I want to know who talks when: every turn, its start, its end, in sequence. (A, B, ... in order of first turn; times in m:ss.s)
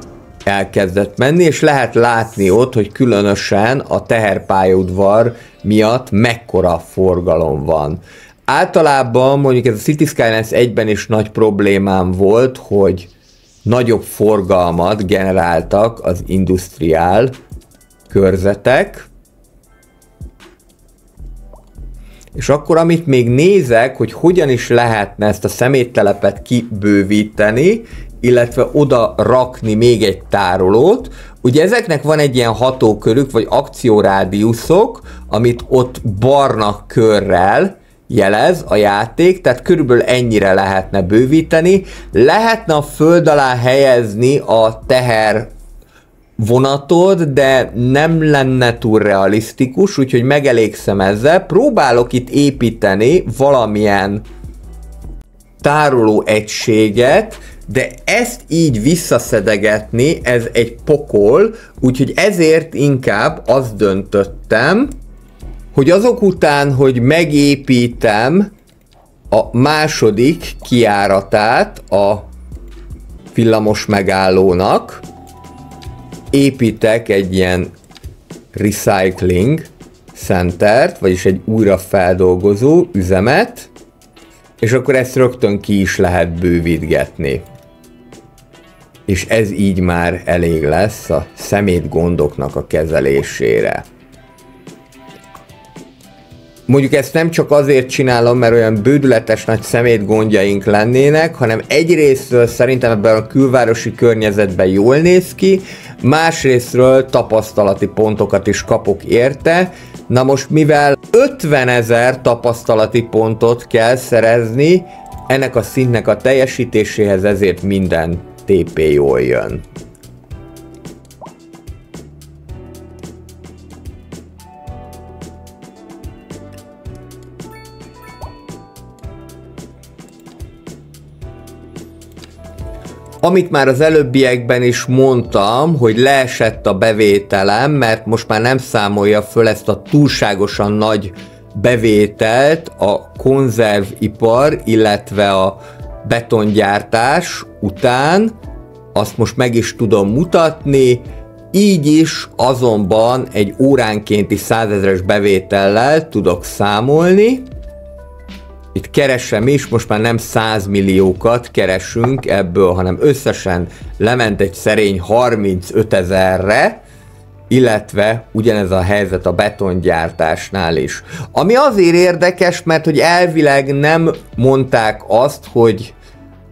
0:00.4-0:13.1 A
0:13.6-0:17.3 A
0:18.1-0:19.1 A
0:22.3-0:45.5 A
0:46.4-0:54.2 A
0:55.6-1:04.9 A
1:05.7-1:08.5 A
1:09.3-1:12.3 A
1:13.3-1:15.0 A
1:16.3-1:17.7 A
1:18.5-1:23.7 A
1:24.6-1:27.4 A
1:29.1-1:33.8 A
1:36.7-1:59.6 A
2:13.2-2:28.3 A
2:28.9-2:37.5 A
2:38.7-2:46.8 A
2:47.5-2:55.9 A